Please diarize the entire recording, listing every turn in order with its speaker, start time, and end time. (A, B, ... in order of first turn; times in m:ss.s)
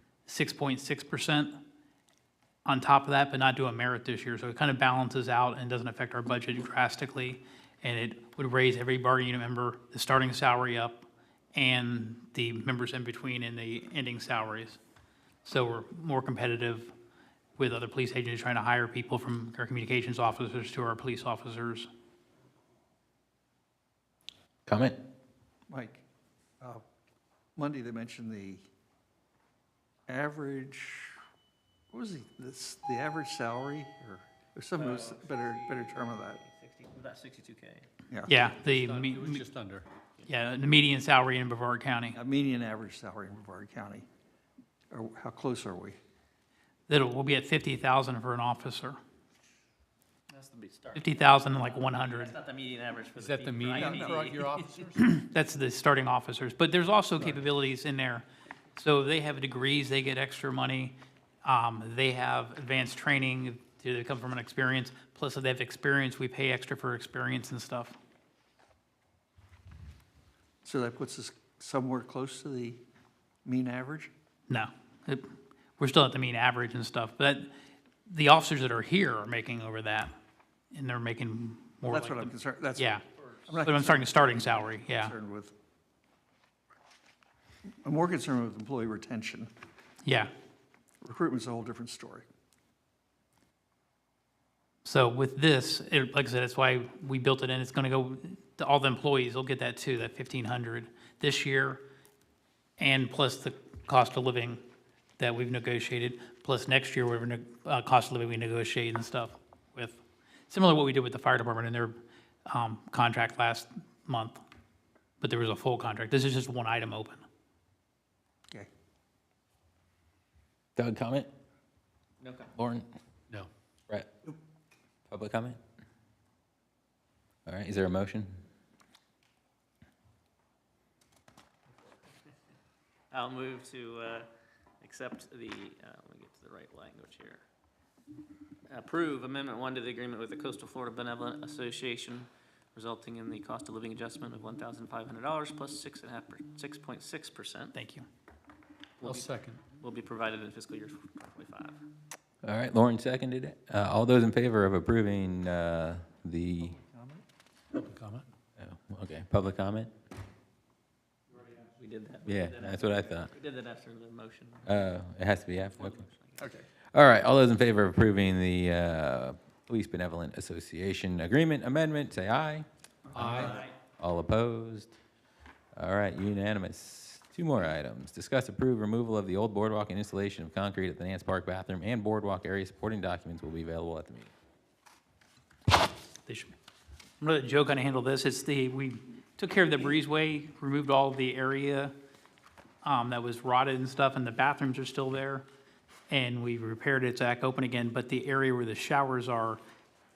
0:00.2-0:01.6 A
0:02.6-0:14.8 A
0:15.4-0:16.9 A
0:17.6-0:21.9 A
0:24.6-0:25.0 B
0:25.7-0:26.0 C
0:27.6-0:28.6 C
0:30.1-0:31.2 C
0:31.9-0:36.4 C
0:34.7-0:37.9 D
0:38.1-0:38.4 C
0:38.2-0:39.4 A
0:38.6-0:39.8 E
0:40.2-0:42.2 A
0:42.1-0:44.1 C
0:44.9-0:46.0 C
0:46.9-0:49.0 A
0:50.3-0:54.8 D
0:50.9-0:52.3 A
0:53.2-0:55.1 E
0:53.8-0:54.4 C
0:54.9-1:07.9 A
1:10.6-1:12.8 C
1:13.4-1:14.1 C
1:14.5-1:17.5 A
1:18.0-1:20.1 A
1:20.7-1:23.0 A
1:21.9-1:25.6 C
1:23.6-1:25.1 A
1:27.8-1:29.5 C
1:30.0-1:30.3 A
1:31.0-1:32.3 C
1:34.8-1:41.8 A
1:42.8-1:44.6 A
1:45.2-1:54.4 A
1:55.2-1:57.2 A
2:00.8-2:01.3 B
2:02.2-2:02.5 D
2:02.6-2:02.9 B
2:05.1-2:05.6 B
2:07.5-2:08.3 B
2:13.1-2:14.3 D
2:14.8-2:17.4 D
2:18.7-2:27.7 D
2:27.7-2:28.0 A
2:29.0-2:31.8 D
2:29.0-2:29.6 E
2:32.4-2:36.7 B
2:36.6-2:37.2 C
2:37.7-2:38.2 E
2:38.6-2:39.9 B
2:41.4-2:44.8 D
2:42.2-2:43.3 B
2:44.6-2:46.0 B
2:45.7-2:46.5 D
2:46.4-2:46.6 C
2:46.9-2:53.5 B
2:53.2-2:53.6 E
2:53.2-2:53.5 C
2:53.2-2:53.8 D
2:54.0-2:54.9 B
2:55.8-3:04.3 B
3:06.2-3:06.5 A
3:07.2-3:11.9 A
3:12.8-3:15.4 A
3:16.1-3:19.6 A